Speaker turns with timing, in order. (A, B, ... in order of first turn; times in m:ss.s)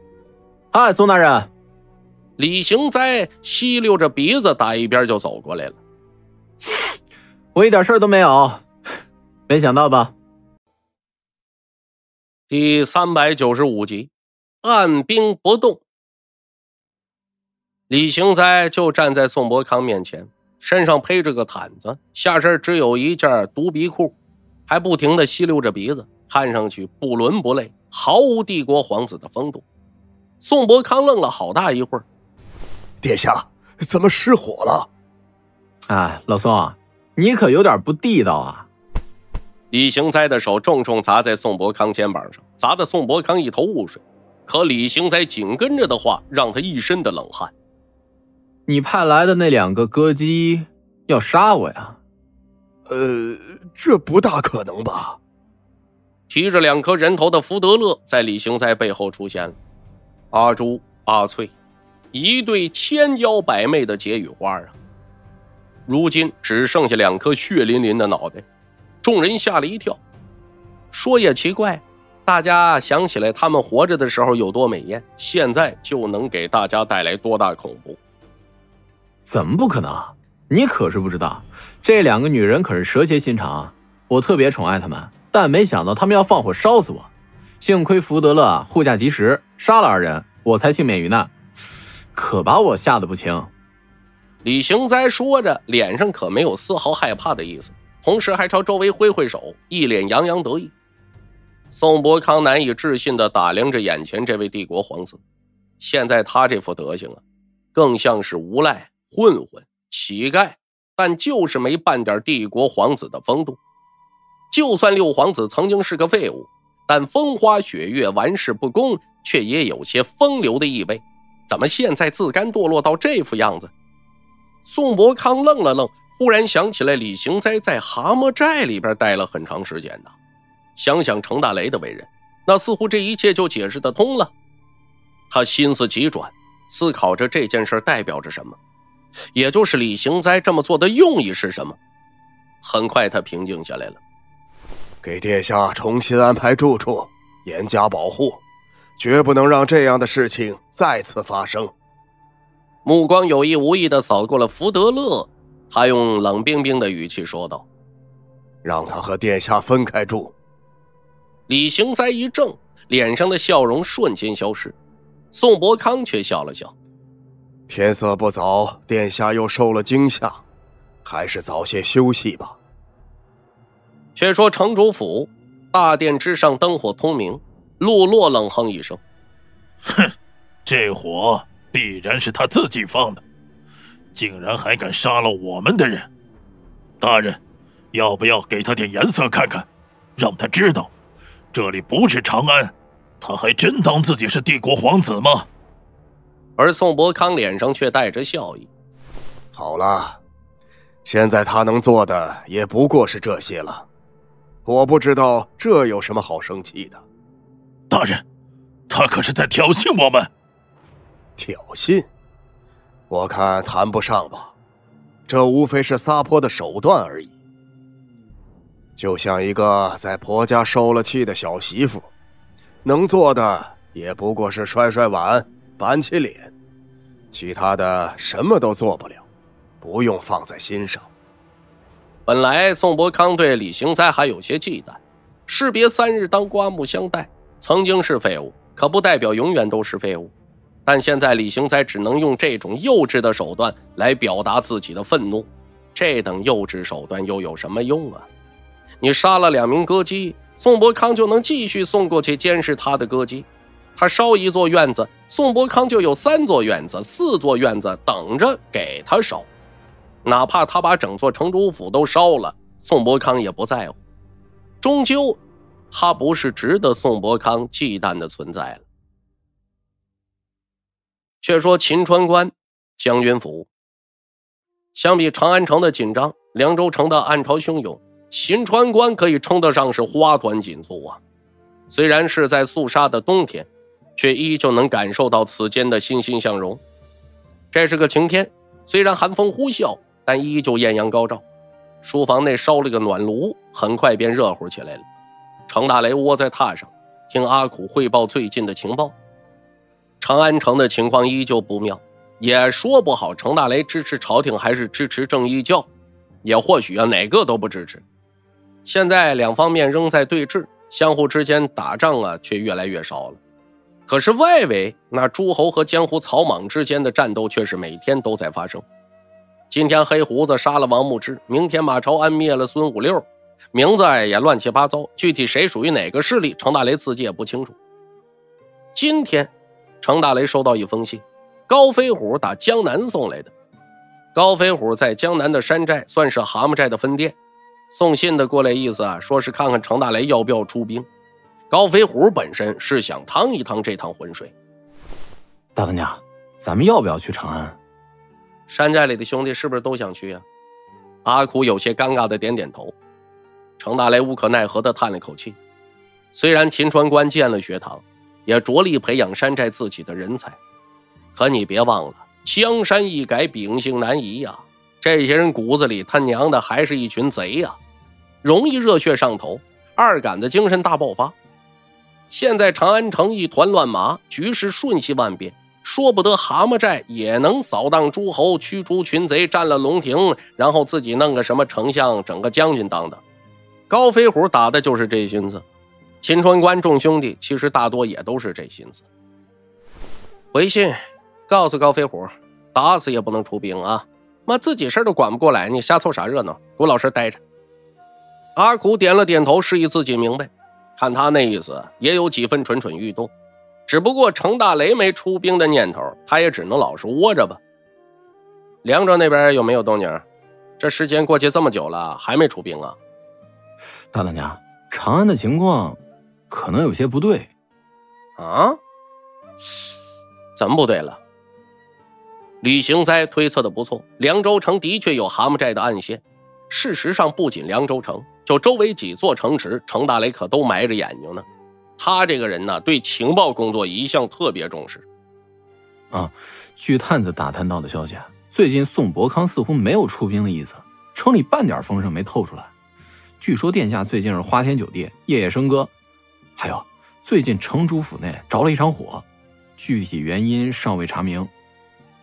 0:00.7-0:01.5 A
0:02.4-0:05.8 B
0:07.5-0:08.7 A
0:09.5-0:10.1 A
0:12.5-0:14.1 B
0:14.6-0:15.8 B
0:17.9-0:24.1 B
0:24.7-0:29.6 B
0:30.4-0:32.0 B
0:33.0-0:34.9 C
0:35.8-0:38.7 A
0:39.7-0:47.5 B
0:48.7-0:52.0 A
0:52.9-0:55.2 C
0:56.3-0:59.6 B
1:00.3-1:01.5 B
1:02.1-1:04.7 B
1:05.9-1:08.4 B
1:09.0-1:10.0 B
1:10.9-1:18.0 B
1:19.2-1:27.1 A
1:27.6-1:31.4 A
1:32.1-1:33.5 A
1:34.4-1:40.7 B
1:41.7-1:45.2 B
1:45.8-1:47.2 B
1:47.7-1:53.6 B
1:54.5-2:03.7 B
2:04.6-2:10.1 B
2:10.8-2:14.3 B
2:15.3-2:18.6 B
2:19.3-2:21.8 B
2:22.6-2:24.0 B
2:25.0-2:28.4 C
2:29.0-2:31.7 C
2:32.8-2:37.6 B
2:38.6-2:40.3 C
2:41.5-2:44.8 B
2:45.3-2:46.7 B
2:47.7-2:50.4 C
2:51.0-2:52.6 C
2:54.2-2:59.0 B
2:59.8-3:00.1 D
3:00.6-3:03.2 D
3:04.1-3:06.1 D
3:07.0-3:07.4 D
3:07.9-3:10.9 D
3:11.5-3:15.5 D
3:16.6-3:18.7 B
3:19.5-3:20.2 C
3:21.0-3:23.9 C
3:24.6-3:27.0 C
3:27.9-3:28.2 D
3:28.9-3:30.3 D
3:31.4-3:32.1 C
3:33.1-3:34.5 C
3:35.3-3:37.4 C
3:39.0-3:42.1 C
3:42.8-3:46.5 C
3:47.3-3:49.2 C
3:49.8-3:51.1 C
3:52.3-4:00.3 B
4:00.8-4:08.2 B
4:09.0-4:19.5 B
4:20.2-4:24.0 B
4:24.8-4:25.4 B
4:25.9-4:28.8 B
4:31.4-4:33.7 B
4:34.9-4:41.2 B
4:41.9-4:46.8 B
4:47.7-4:51.4 B
4:52.0-4:55.0 B
4:55.7-4:59.1 B
5:00.2-5:05.9 B
5:06.4-5:08.0 B
5:08.8-5:13.4 B
5:14.1-5:18.8 B
5:19.7-5:27.8 B
5:28.9-5:29.5 B
5:30.0-5:33.5 B
5:34.3-5:37.3 B
5:37.9-5:41.0 B
5:41.7-5:44.5 B
5:45.8-5:47.8 A
5:48.7-5:50.4 B
5:51.2-5:52.9 B
5:53.8-5:55.6 B
5:56.3-6:00.6 B
6:01.3-6:07.8 B
6:08.4-6:11.3 B
6:12.3-6:23.2 B
6:23.9-6:25.6 B
6:26.2-6:29.0 B
6:30.5-6:37.4 B
6:38.6-6:43.3 B
6:43.9-6:47.6 B
6:48.8-6:50.2 B
6:50.8-6:53.0 B
6:54.1-6:57.5 A
6:58.4-6:58.8 B
7:00.6-7:01.2 B
7:02.6-7:11.4 B
7:12.0-7:15.0 B
7:16.1-7:22.7 A
7:23.4-7:25.9 A
7:26.6-7:29.2 A
7:29.8-7:31.5 A